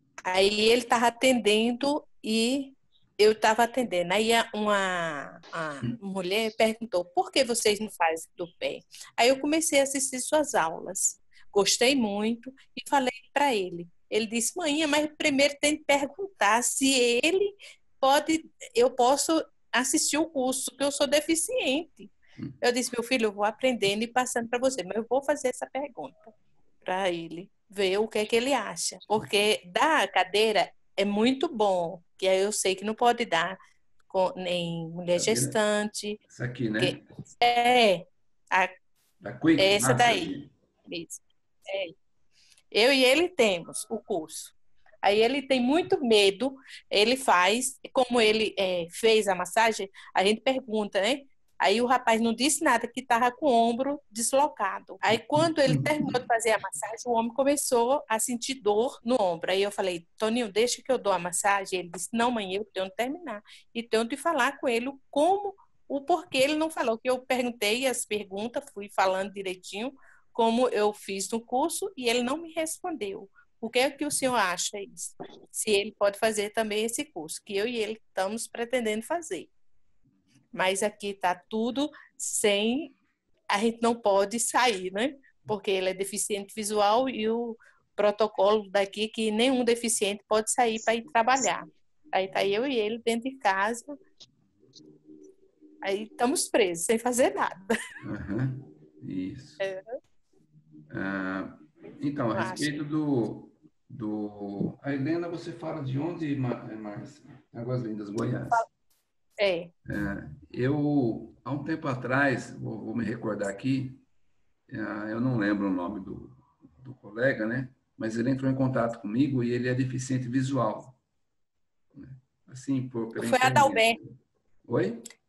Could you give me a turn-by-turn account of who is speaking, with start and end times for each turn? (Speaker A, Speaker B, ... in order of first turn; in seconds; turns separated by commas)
Speaker A: 0.2-26.3, Speaker A: 26.9-33.6, Speaker A: 34.1-36.2, Speaker B: 35.1-35.6, Speaker B: 36.3-37.1, Speaker A: 36.8-38.8, Speaker B: 39.2-40.5, Speaker A: 39.6-40.3, Speaker A: 40.9-41.9, Speaker A: 42.7-79.5, Speaker B: 55.7-56.2, Speaker A: 80.5-82.9, Speaker A: 83.5-94.0, Speaker A: 95.8-97.7, Speaker B: 98.0-99.6, Speaker A: 99.6-100.0, Speaker B: 100.9-108.7, Speaker A: 102.3-102.8, Speaker A: 109.4-109.7, Speaker B: 109.9-114.0, Speaker B: 114.7-121.0, Speaker B: 122.0-125.1, Speaker A: 123.2-124.0